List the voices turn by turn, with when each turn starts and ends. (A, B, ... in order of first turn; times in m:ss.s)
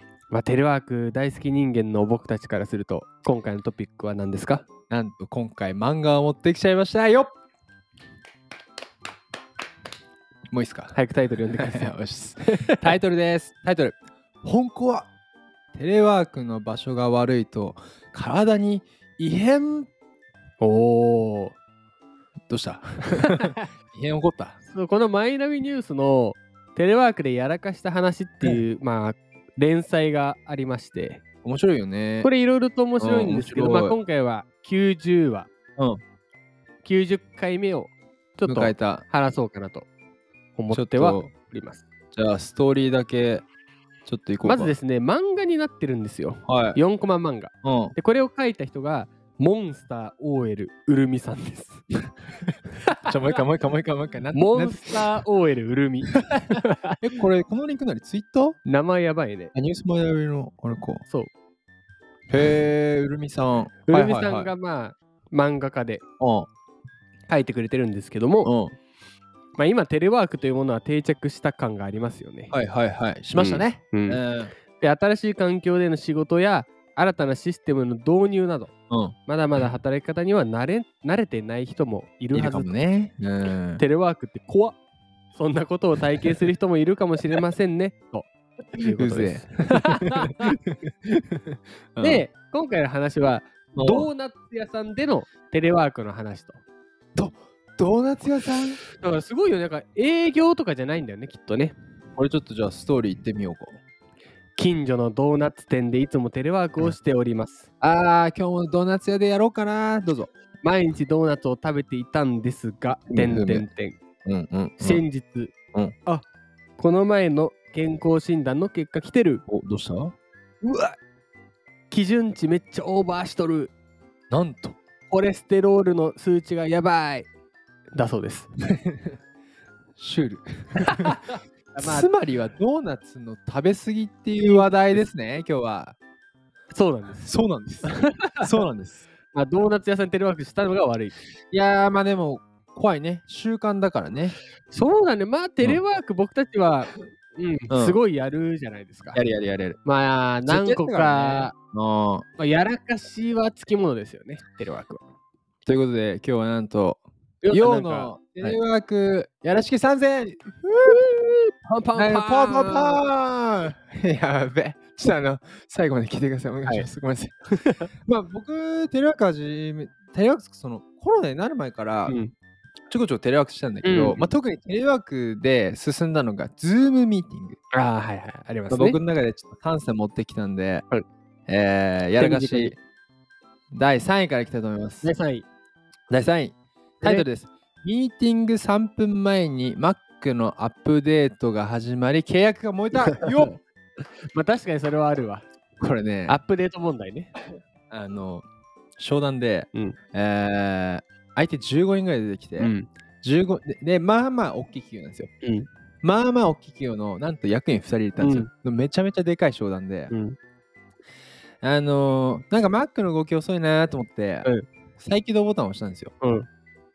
0:00.3-0:04.6 A
0:04.9-0:07.3 B
0:10.5-0:11.0 B
0:10.9-0:12.9 A
0:11.5-0:15.1 B
0:15.7-0:19.9 B
0:20.6-0:21.6 A
0:22.5-0:24.6 B
0:23.2-0:23.6 A
0:24.7-0:31.2 A
0:31.4-0:32.3 B
0:32.2-0:35.5 A
0:33.0-0:34.0 B
0:36.8-0:39.9 A
0:38.4-0:39.0 B
0:40.6-0:41.8 A
0:40.7-0:41.3 B
0:42.1-0:43.4 B
0:44.0-0:44.8 B
0:44.4-0:51.8 A
0:46.4-0:46.8 B
0:47.6-0:47.9 B
0:52.8-0:53.4 A
0:53.0-0:55.1 B
0:54.3-0:57.0 A
0:56.3-0:58.6 B
0:58.6-0:59.5 A
0:59.5-1:01.0 B
1:01.1-1:01.3 A
1:02.3-1:04.5 B
1:03.8-1:06.0 A
1:06.2-1:06.5 B
1:07.3-1:08.5 A
1:08.4-1:08.7 B
1:09.6-1:12.5 A
1:12.5-1:14.5 B
1:13.3-1:18.7 A
1:18.9-1:19.2 B
1:19.2-1:22.7 A
1:22.3-1:23.8 B
1:23.8-1:24.8 A
1:25.3-1:30.6 A
1:28.8-1:32.2 B
1:32.0-1:36.6 A
1:33.7-1:34.1 B
1:37.2-1:38.8 B
1:38.9-1:41.8 A
1:42.2-1:43.8 B
1:44.6-1:47.7 A
1:47.8-1:50.3 B
1:50.6-1:54.0 A
1:53.1-1:53.7 B
1:54.2-1:55.0 B
1:54.8-1:55.5 A
1:56.8-1:59.4 A
1:59.5-2:00.1 B
2:00.6-2:00.9 A
2:01.9-2:03.7 A
2:04.3-2:04.8 B
2:05.1-2:07.3 A
2:07.9-2:08.5 A
2:08.7-2:09.2 B
2:10.0-2:11.2 B
2:10.8-2:12.1 A
2:11.7-2:16.0 B
2:14.4-2:15.0 A
2:16.7-2:18.5 A
2:17.2-2:19.0 B
2:19.3-2:21.2 A
2:21.5-2:24.4 B
2:24.7-2:29.2 A
2:27.7-2:28.0 B
2:29.1-2:29.8 B
2:29.8-2:31.5 A
2:30.4-2:32.2 B
2:32.4-2:35.0 A
2:35.6-2:41.1 B
2:37.4-2:38.6 A
2:40.8-2:43.0 A
2:42.0-2:47.4 B
2:47.5-2:47.9 A
2:48.0-2:52.2 B
2:52.1-2:52.3 A
2:52.9-2:57.6 B
2:53.8-2:54.3 A
2:57.7-2:59.0 A
2:58.7-3:00.9 B
3:01.5-3:02.8 B
3:02.2-3:02.7 A
3:03.7-3:05.1 B
3:05.0-3:05.4 A
3:06.1-3:13.6 B
3:07.0-3:07.3 A
3:13.0-3:13.5 A
3:14.3-3:15.4 A
3:15.8-3:16.4 B
3:16.2-3:17.3 A
3:17.9-3:18.4 B
3:19.0-3:25.3 B
3:22.6-3:22.9 A
3:25.4-3:25.7 A
3:26.0-3:30.1 B
3:28.2-3:28.5 A
3:30.1-3:30.4 A
3:31.6-3:36.1 B
3:36.2-3:36.5 A